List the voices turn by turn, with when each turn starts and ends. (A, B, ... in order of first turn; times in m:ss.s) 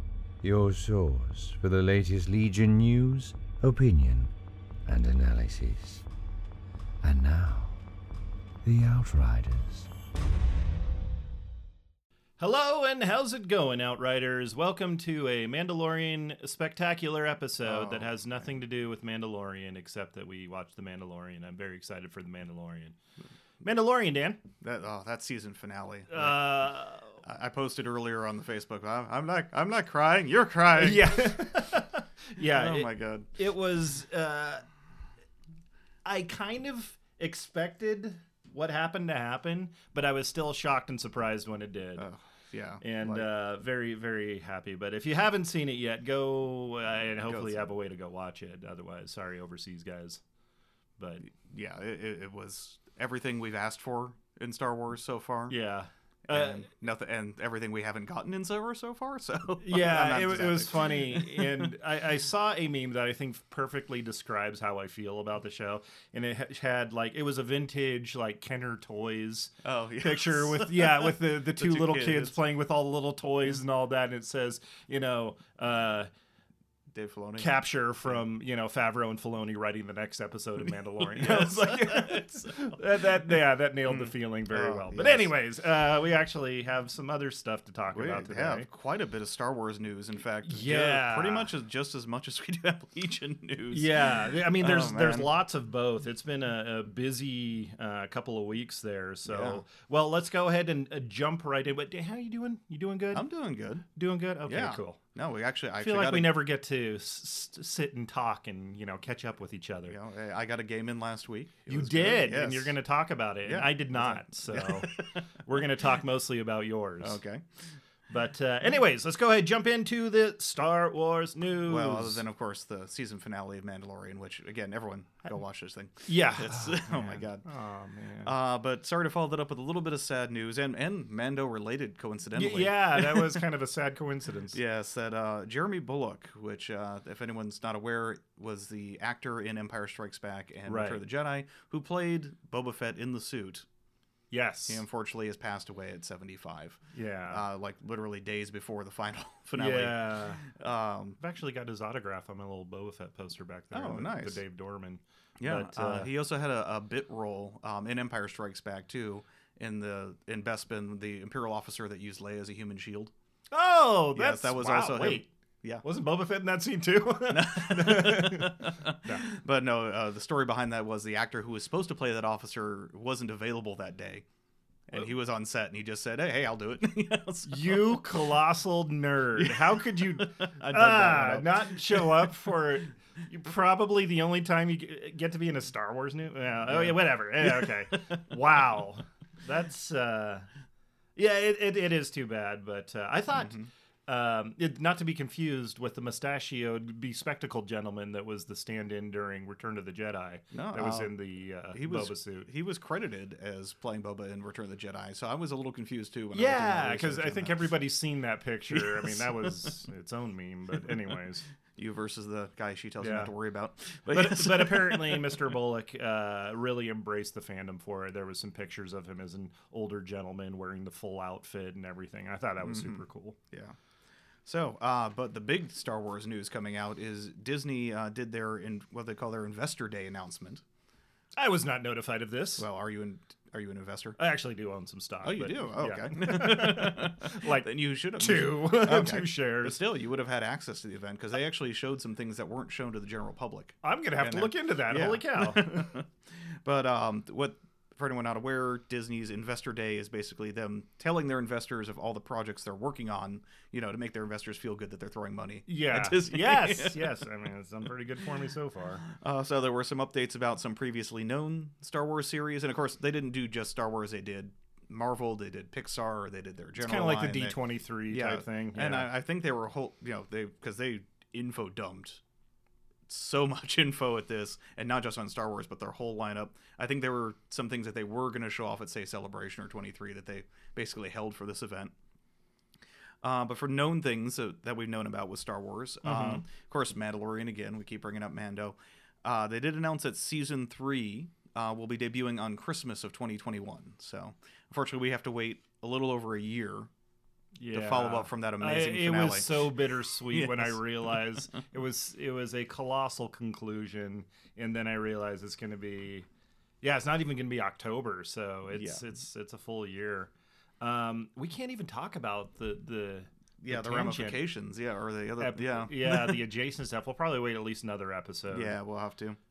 0:00.4-0:04.3 A
0:04.8-0:06.0 A
0:07.0-0:07.8 A
0:08.6-0:09.9 A
0:12.4-0:23.0 B
0:17.6-0:18.2 C
0:23.6-0:24.4 B
0:24.6-0:31.4 C
0:26.1-0:27.2 B
0:30.8-0:34.6 B
0:32.4-0:33.3 C
0:36.0-0:42.1 B
0:42.0-0:43.3 C
0:42.8-0:50.2 B
0:47.2-0:47.7 C
0:51.0-0:51.2 B
0:51.3-0:55.5 C
0:55.5-0:56.6 B
0:56.3-1:01.7 C
0:59.6-1:16.1 B
1:09.6-1:12.4 C
1:16.9-1:17.5 C
1:17.4-1:28.7 B
1:21.0-1:25.3 C
1:27.9-1:35.3 C
1:30.4-1:31.5 B
1:33.7-1:43.3 B
1:39.2-1:39.6 C
1:43.1-1:43.8 C
1:43.9-1:45.0 B
1:44.4-1:46.4 C
1:45.8-1:50.0 B
1:49.9-1:52.8 C
1:51.7-1:57.2 B
1:53.4-1:55.6 C
1:57.0-1:57.4 C
1:58.1-2:02.2 B
2:01.7-2:07.4 C
2:06.0-2:08.3 B
2:08.2-2:13.4 C
2:12.3-2:14.6 B
2:14.5-2:23.6 C
2:20.6-2:21.0 B
2:24.3-2:24.8 B
2:24.7-2:31.2 C
2:26.9-2:27.4 B
2:29.6-2:30.4 B
2:31.2-2:36.1 B
2:33.7-2:34.4 C
2:35.4-2:43.1 C
2:43.5-2:45.3 B
2:44.1-2:45.8 C
2:45.8-2:49.2 B
2:47.3-2:54.2 C
2:54.9-2:58.1 C
2:57.4-3:10.5 B
2:59.4-3:02.3 C
3:06.7-3:08.2 C
3:11.2-3:22.5 B
3:13.3-3:13.7 C
3:20.5-3:21.1 C
3:21.7-3:27.7 C
3:26.3-3:31.4 B
3:28.7-3:29.7 C
3:31.7-3:35.4 C
3:33.0-3:33.3 B
3:34.1-3:43.4 B
3:42.6-3:43.7 C
3:44.4-3:50.6 C
3:51.4-3:52.7 B
3:52.6-3:54.2 C
3:54.2-3:59.8 B
3:55.2-4:06.1 C
4:03.8-4:05.9 B
4:06.6-4:17.2 C
4:15.7-4:19.0 B
4:19.1-4:27.6 C
4:26.8-4:29.1 B
4:28.1-4:32.2 C
4:33.1-4:41.9 C
4:43.2-4:56.9 C
4:46.0-4:46.4 B
4:57.6-5:06.2 B
4:57.7-5:01.4 C
5:06.8-5:14.4 B
5:08.7-5:09.0 C
5:13.6-5:16.4 C
5:15.4-5:18.8 B
5:18.5-5:19.4 C